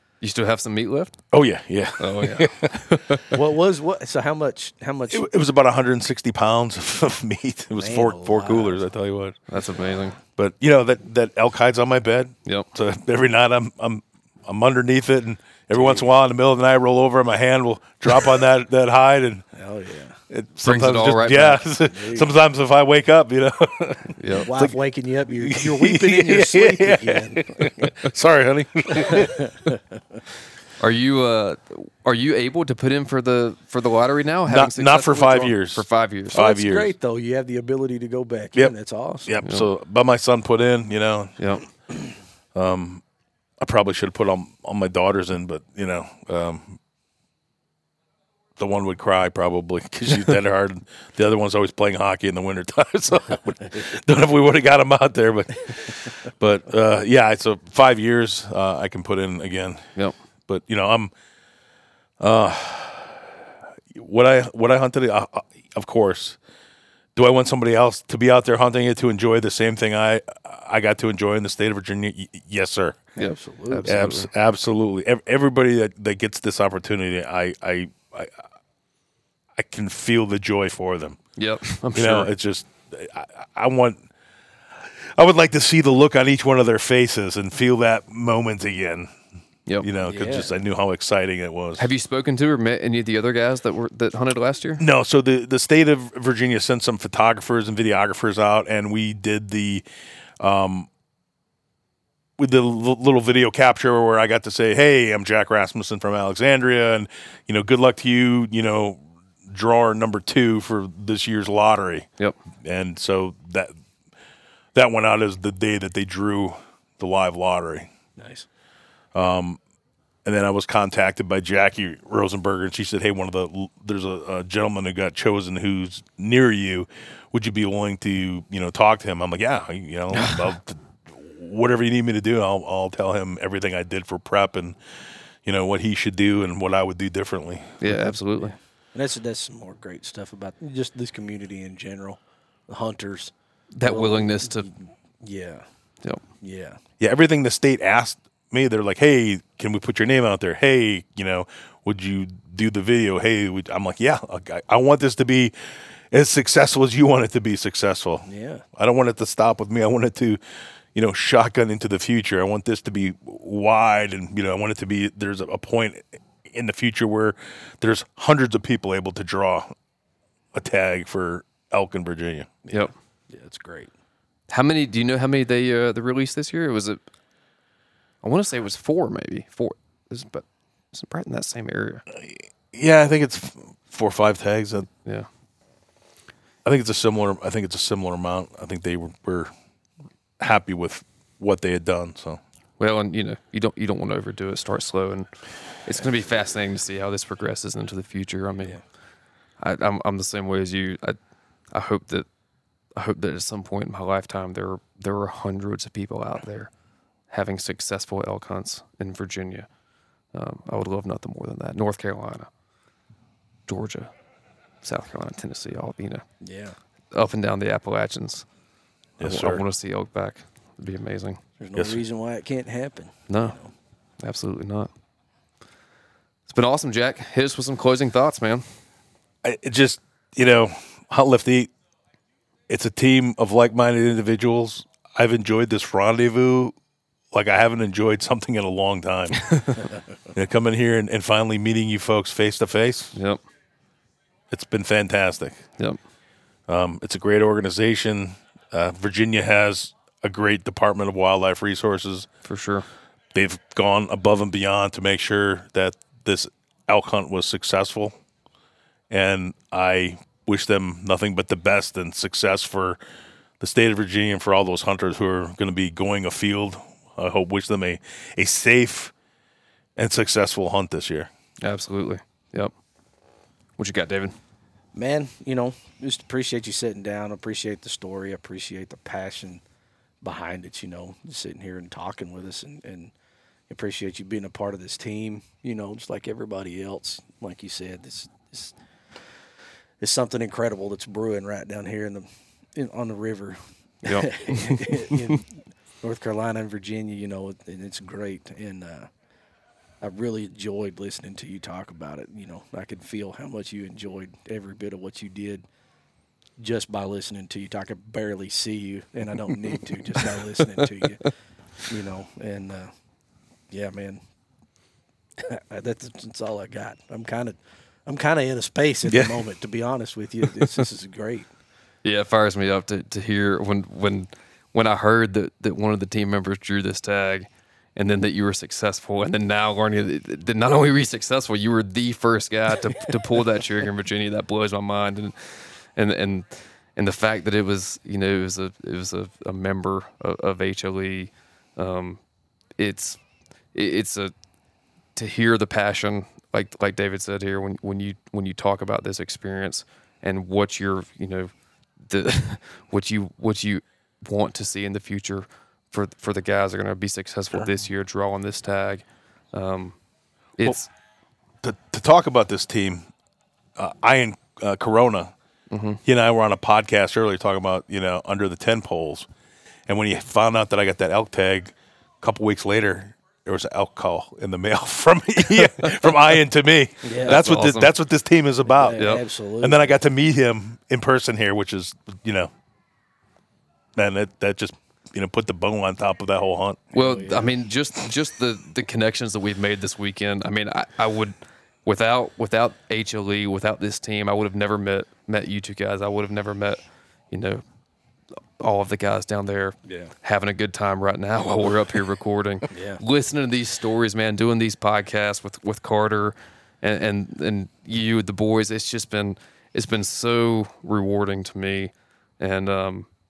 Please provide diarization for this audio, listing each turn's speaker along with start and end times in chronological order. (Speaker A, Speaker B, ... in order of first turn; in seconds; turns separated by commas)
Speaker A: 0.2-1.2, Speaker B: 1.3-3.0, Speaker A: 2.0-3.3, Speaker C: 3.3-5.3, Speaker B: 5.1-9.5, Speaker C: 7.7-8.9, Speaker A: 9.5-10.2, Speaker B: 10.4-19.4, Speaker C: 15.7-16.1, Speaker C: 19.6-20.2, Speaker B: 20.3-24.7, Speaker A: 20.6-21.6, Speaker C: 21.9-22.4, Speaker A: 24.2-24.5, Speaker C: 24.4-27.9, Speaker B: 25.4-29.7, Speaker C: 28.9-30.2, Speaker A: 30.8-36.4, Speaker B: 34.5-36.9, Speaker C: 36.3-39.3, Speaker B: 39.3-41.4, Speaker A: 41.4-41.6, Speaker B: 42.5-43.0, Speaker B: 43.6-46.8, Speaker B: 48.6-60.0, Speaker B: 60.5-61.1, Speaker B: 62.2-63.3, Speaker B: 63.9-66.4, Speaker B: 67.2-73.1, Speaker C: 73.2-74.0, Speaker A: 73.2-74.3, Speaker B: 73.8-78.4, Speaker B: 79.6-81.2, Speaker A: 81.4-82.3, Speaker B: 81.9-84.0, Speaker B: 85.1-89.1, Speaker B: 89.8-91.9, Speaker C: 90.0-90.5, Speaker A: 91.8-94.8, Speaker B: 94.8-99.8, Speaker B: 100.4-100.9, Speaker B: 102.4-112.1, Speaker B: 112.6-113.7, Speaker B: 114.7-117.9, Speaker C: 118.2-118.5, Speaker B: 119.1-119.6, Speaker B: 120.2-134.8, Speaker A: 130.1-130.5, Speaker B: 135.4-137.9, Speaker A: 137.8-138.6, Speaker C: 137.9-145.6, Speaker A: 143.7-144.7, Speaker C: 146.4-146.8, Speaker B: 147.0-155.5, Speaker B: 156.1-160.4, Speaker C: 158.3-158.6, Speaker B: 160.9-169.7, Speaker B: 170.5-172.5, Speaker C: 172.7-173.9, Speaker A: 174.5-177.0, Speaker A: 178.2-182.0, Speaker B: 182.2-184.9, Speaker B: 186.6-189.5, Speaker B: 190.4-192.4, Speaker A: 192.8-195.3, Speaker A: 195.8-198.8, Speaker A: 199.6-201.2, Speaker A: 201.7-202.3, Speaker A: 202.9-206.7, Speaker A: 207.3-209.7, Speaker A: 210.3-212.5, Speaker A: 213.7-214.1, Speaker A: 214.8-216.2, Speaker C: 216.4-216.8, Speaker A: 217.1-218.4, Speaker B: 219.2-219.6, Speaker A: 219.2-221.4, Speaker C: 221.6-223.7, Speaker B: 221.7-222.0, Speaker A: 223.3-223.6, Speaker A: 224.2-224.9, Speaker A: 226.5-228.6, Speaker B: 229.4-231.7, Speaker B: 232.7-236.7, Speaker B: 237.3-239.5, Speaker A: 239.3-239.8, Speaker B: 240.3-243.2, Speaker A: 243.1-243.4, Speaker B: 244.5-245.7, Speaker B: 246.7-252.3, Speaker A: 252.4-252.9, Speaker B: 253.3-258.2, Speaker B: 259.1-263.0, Speaker B: 263.6-269.1, Speaker B: 270.0-271.3, Speaker A: 271.6-272.7, Speaker A: 273.8-274.4, Speaker C: 274.9-279.6, Speaker C: 280.2-283.1, Speaker C: 283.7-288.8, Speaker C: 290.0-299.1, Speaker A: 294.0-295.2, Speaker C: 300.0-305.6, Speaker C: 306.6-311.3, Speaker C: 311.9-312.9, Speaker C: 313.7-314.2, Speaker C: 315.4-321.5, Speaker B: 319.1-319.4, Speaker A: 322.0-342.2, Speaker A: 342.8-343.2, Speaker A: 343.7-344.3, Speaker A: 345.2-351.5, Speaker A: 352.1-360.0, Speaker A: 360.6-360.9, Speaker B: 361.6-363.1, Speaker B: 363.8-365.3, Speaker A: 365.7-366.0, Speaker B: 366.1-369.3, Speaker B: 369.9-379.1, Speaker A: 375.5-376.1, Speaker C: 377.0-377.4, Speaker A: 377.2-377.9, Speaker C: 378.7-380.0, Speaker A: 378.9-379.2, Speaker B: 379.6-382.5, Speaker B: 383.9-386.9, Speaker C: 386.9-387.5, Speaker A: 386.9-397.6, Speaker A: 398.6-413.1, Speaker C: 402.7-403.0